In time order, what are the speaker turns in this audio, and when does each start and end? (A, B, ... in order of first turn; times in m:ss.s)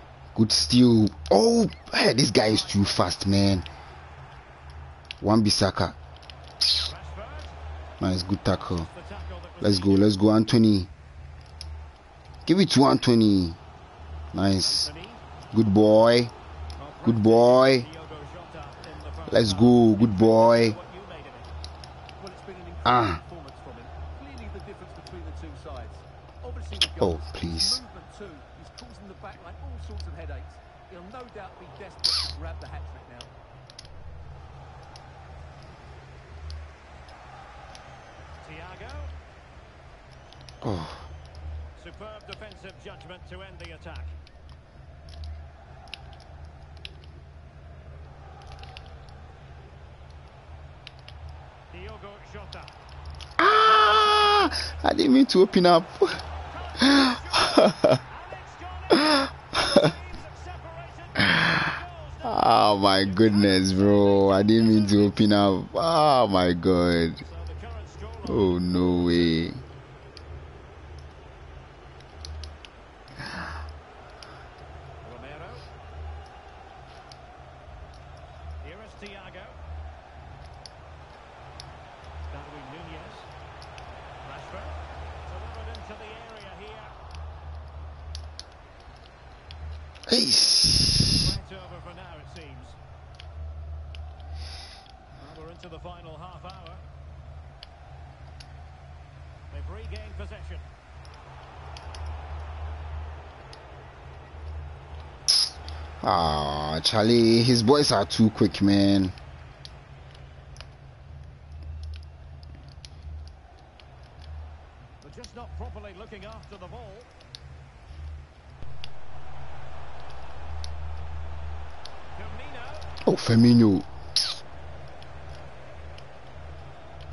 0:00.3-0:03.7 A
0:02.2-0:03.1 B
0:05.2-0:06.0 A
0:06.8-0:07.6 B
0:08.0-0:08.9 A
0:08.5-0:10.1 B
0:09.6-0:10.9 A
0:12.4-0:13.6 A
0:14.3-0:14.9 A
0:14.6-0:15.2 B
0:15.5-0:16.3 A
0:16.8-0:21.5 B
0:17.0-0:17.9 A
0:19.3-0:20.8 A
0:22.2-0:33.3 C
0:22.8-0:23.2 A
0:27.0-0:27.8 A
0:38.4-0:39.1 B
0:40.6-0:41.1 A
0:41.8-0:44.1 B
0:51.7-0:52.8 B
0:53.4-0:56.2 A
0:53.6-0:54.8 B
0:56.4-1:05.3 B
0:56.8-0:58.0 A
0:59.0-0:59.8 A
1:02.2-1:07.2 A
1:07.2-1:09.4 B
1:08.2-1:09.6 A
1:15.0-1:15.6 B
1:18.6-1:19.6 B
1:22.3-1:23.3 B
1:24.2-1:26.9 B
1:30.1-1:31.2 A
1:31.2-1:32.8 B
1:35.2-1:36.8 B
1:39.5-1:40.7 B
1:46.0-1:49.1 A
1:55.0-1:57.1 B
2:02.1-2:03.0 B
2:03.0-2:03.9 A